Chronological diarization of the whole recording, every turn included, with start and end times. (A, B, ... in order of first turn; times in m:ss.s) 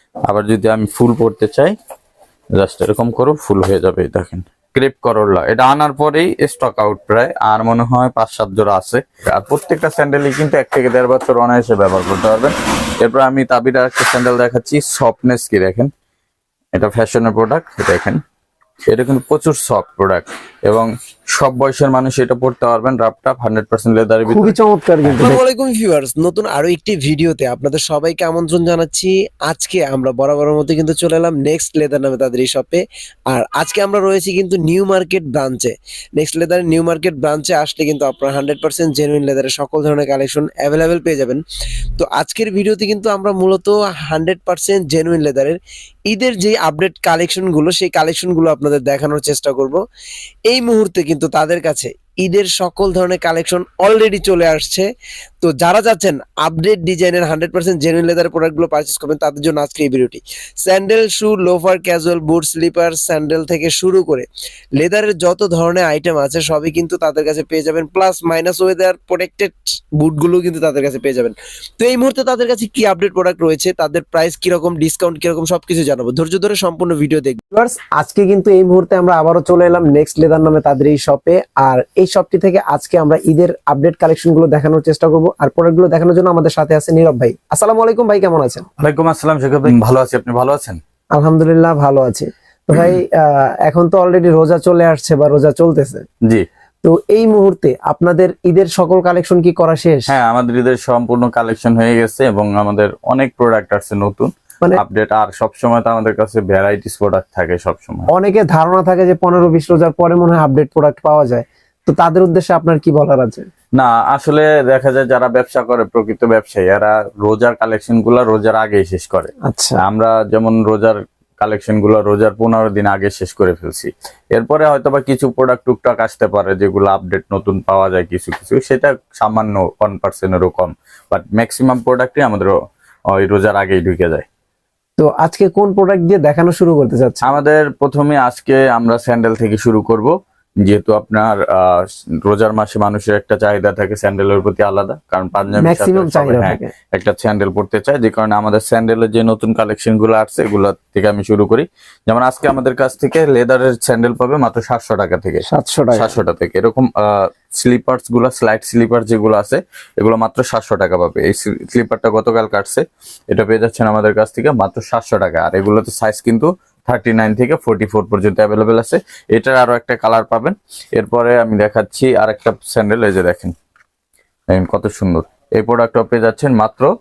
0:00.3-0:01.8 A
0:02.6-0:15.9 A
0:16.8-0:18.2 A
0:18.9-0:24.6 A
0:24.3-0:25.4 B
0:25.2-0:41.4 C
0:42.0-0:49.8 C
0:50.5-0:54.9 C
0:55.4-1:17.4 C
1:17.5-1:28.7 B
1:28.8-1:30.8 A
1:31.1-1:36.0 B
1:36.8-1:40.1 B
1:40.1-1:48.1 A
1:48.1-1:53.5 B
1:53.8-2:12.6 A
1:59.4-1:59.8 B
2:13.1-2:14.3 A
2:15.0-2:17.3 B
2:17.2-2:53.5 A
2:25.6-2:26.7 B
2:35.5-2:36.1 B
2:54.5-2:56.9 A